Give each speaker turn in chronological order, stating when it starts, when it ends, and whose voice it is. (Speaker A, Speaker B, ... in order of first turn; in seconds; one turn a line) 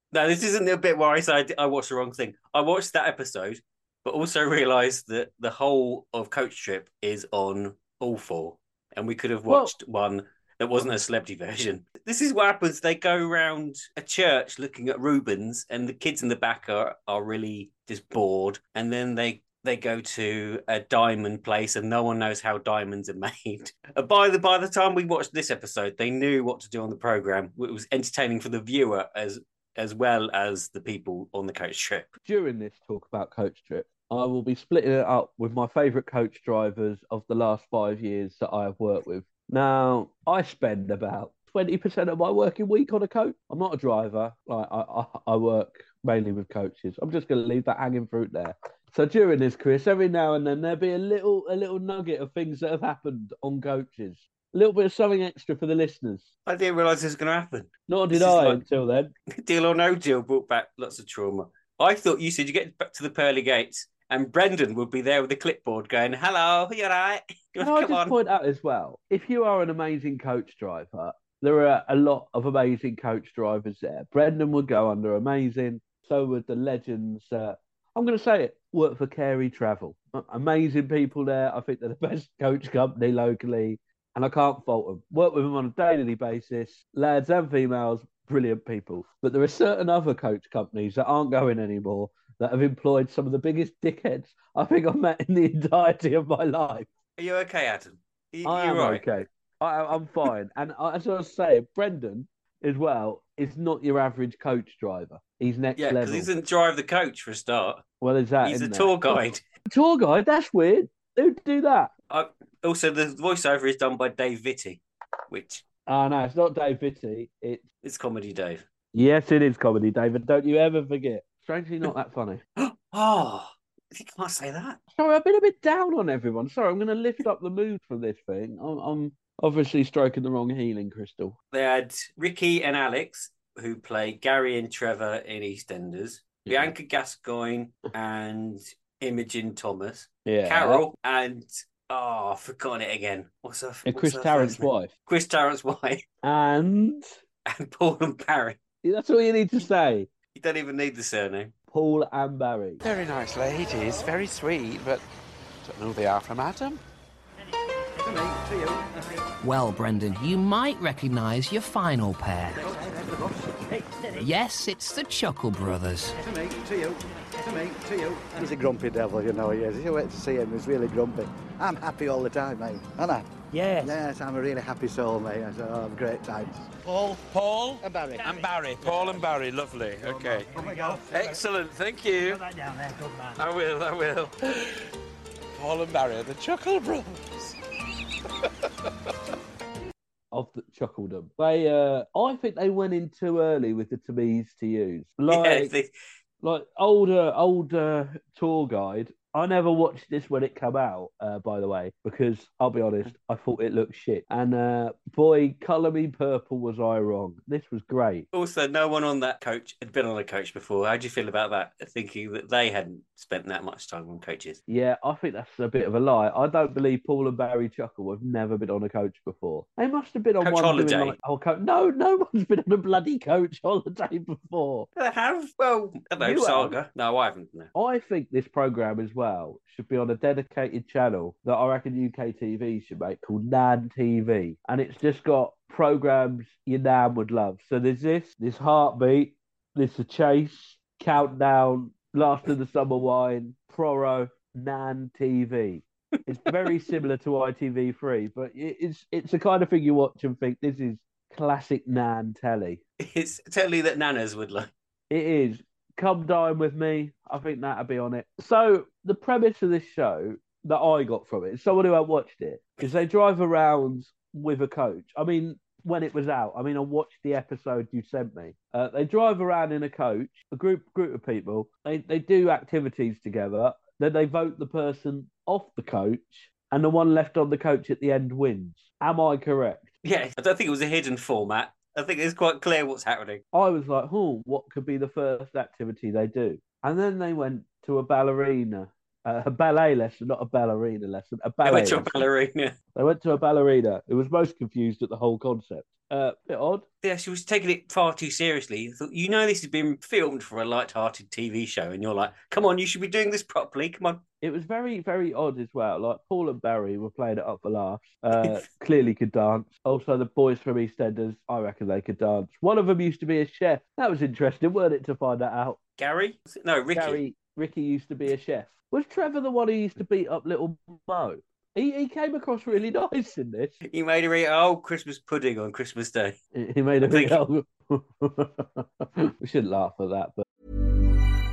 Speaker A: 0.1-32.1
Speaker B: 9.5-9.7
Speaker B: 32.3-56.3
Speaker A: 56.5-58.6
Speaker B: 57.9-59.1
Speaker A: 59.4-68.1
Speaker B: 67.6-96.9
Speaker A: 97.2-99.1
Speaker B: 98.5-106.3
Speaker A: 105.8-107.8
Speaker B: 108.0-111.9
Speaker A: 108.4-109.4
Speaker A: 112.1-115.6
Speaker B: 115.9-117.6
Speaker A: 117.8-118.6
Speaker B: 118.9-122.4
Speaker A: 122.6-124.8
Speaker B: 125.0-131.3
Speaker A: 131.5-146.0
Speaker B: 140.3-140.8
Speaker B: 143.9-144.9
Speaker B: 146.2-147.1
Speaker A: 147.5-148.6
Speaker B: 148.8-150.1
Speaker A: 150.3-151.5
Speaker B: 151.7-152.8
Speaker C: 152.8-155.0
Speaker C: 155.6-156.8
Speaker D: 158.0-159.1
Speaker E: 159.4-162.6
Speaker D: 162.7-163.7
Speaker E: 164.1-166.2
Speaker D: 166.2-176.8
Speaker F: 173.5-173.9
Speaker C: 176.9-182.5
Speaker D: 177.8-178.4
Speaker D: 180.4-181.0
Speaker F: 180.6-180.9
Speaker F: 182.3-183.3
Speaker C: 183.3-184.8
Speaker C: 185.6-187.2
Speaker B: 190.3-195.7
Speaker A: 195.3-195.9
Speaker B: 196.4-208.3
Speaker A: 208.3-214.6
Speaker B: 214.7-224.9
Speaker A: 220.4-221.2
Speaker A: 225.0-227.7
Speaker B: 226.2-226.8
Speaker B: 227.8-252.8
Speaker A: 253.0-254.7
Speaker B: 255.1-279.9
Speaker A: 280.0-283.4
Speaker B: 283.5-292.2
Speaker A: 291.6-292.7
Speaker B: 292.9-296.9
Speaker A: 297.0-304.2
Speaker B: 304.4-315.8
Speaker A: 316.0-317.2
Speaker B: 316.9-323.8
Speaker A: 323.9-326.4
Speaker B: 326.5-330.4
Speaker A: 327.1-327.4